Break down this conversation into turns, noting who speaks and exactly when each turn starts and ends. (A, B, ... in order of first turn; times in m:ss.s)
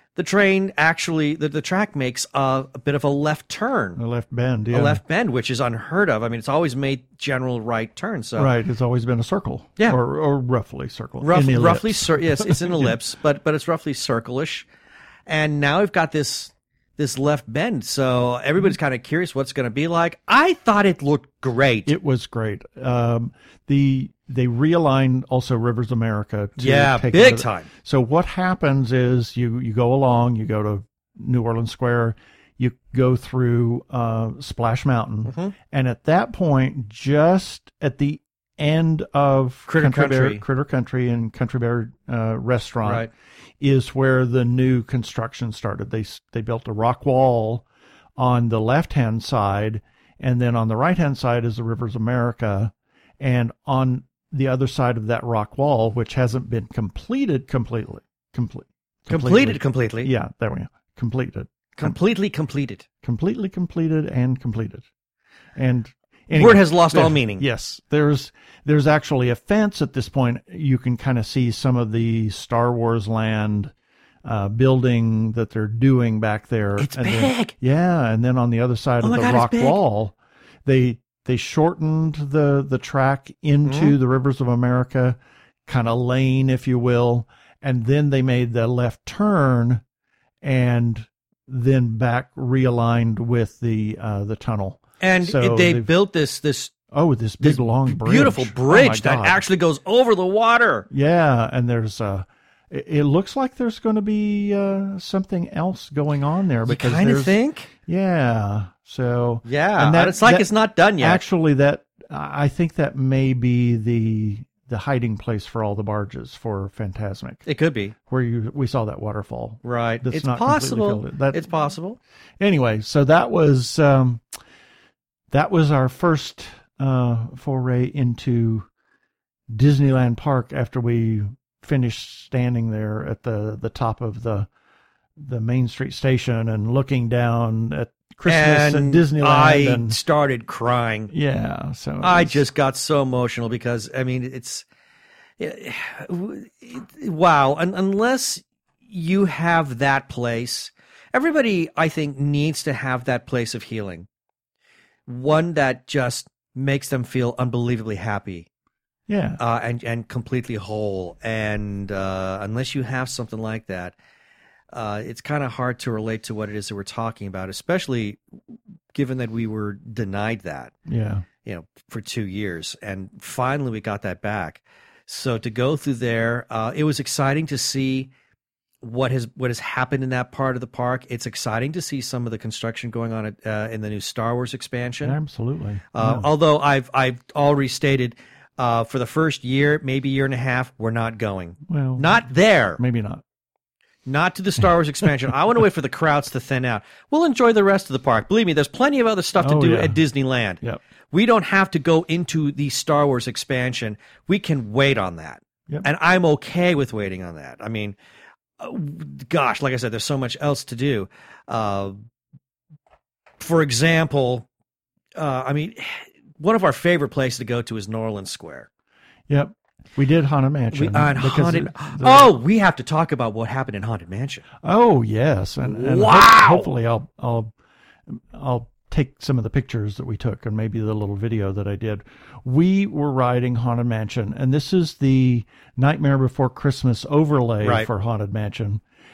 0:00.2-0:04.0 A
0:04.0-0:05.0 B
0:04.7-0:08.5 A
0:08.4-0:13.0 B
0:11.2-0:14.7 A
0:15.3-0:21.9 A
0:21.9-0:43.1 B
0:26.6-0:27.7 A
0:35.2-0:35.5 A
0:39.7-0:40.4 A
0:42.8-0:43.1 A
0:43.6-0:47.6 B
0:48.2-1:02.0 B
0:59.1-1:00.1 A
1:01.8-1:02.8 A
1:03.0-1:04.9 B
1:05.6-1:13.7 B
1:06.3-1:07.4 A
1:14.2-1:29.8 B
1:16.8-1:17.5 A
1:19.0-1:19.8 A
1:23.6-1:24.0 A
1:30.4-1:35.9 B
1:35.0-1:36.7 A
1:36.9-1:39.4 B
1:37.4-1:40.9 A
1:40.9-1:57.4 B
1:46.7-1:47.7 A
1:49.4-1:51.2 A
1:57.5-1:58.0 A
1:58.1-2:01.5 B
1:59.6-2:02.0 A
2:02.4-2:04.2 B
2:05.3-2:08.7 B
2:09.5-2:14.5 B
2:15.2-2:20.0 B
2:18.3-2:21.1 A
2:21.1-2:22.4 B
2:22.0-2:24.7 A
2:25.4-2:34.1 A
2:35.1-2:38.5 A
2:39.1-2:39.4 B
2:39.4-2:44.0 A
2:44.7-2:48.2 A
2:48.9-2:50.8 A
2:50.9-2:51.3 B
2:51.4-2:58.1 A
2:58.8-3:05.2 A
3:05.0-3:06.3 B
3:05.9-3:12.8 A
3:11.7-3:12.3 B
3:12.8-3:13.2 B
3:14.1-3:28.0 A
3:19.4-3:20.0 B
3:28.6-3:32.0 A
3:33.4-3:34.5 A
3:35.2-3:38.7 A
3:39.3-3:42.3 B
3:40.7-3:44.4 A
3:44.6-3:47.5 B
3:45.6-3:46.7 A
3:48.1-3:58.8 B
3:57.6-3:57.9 A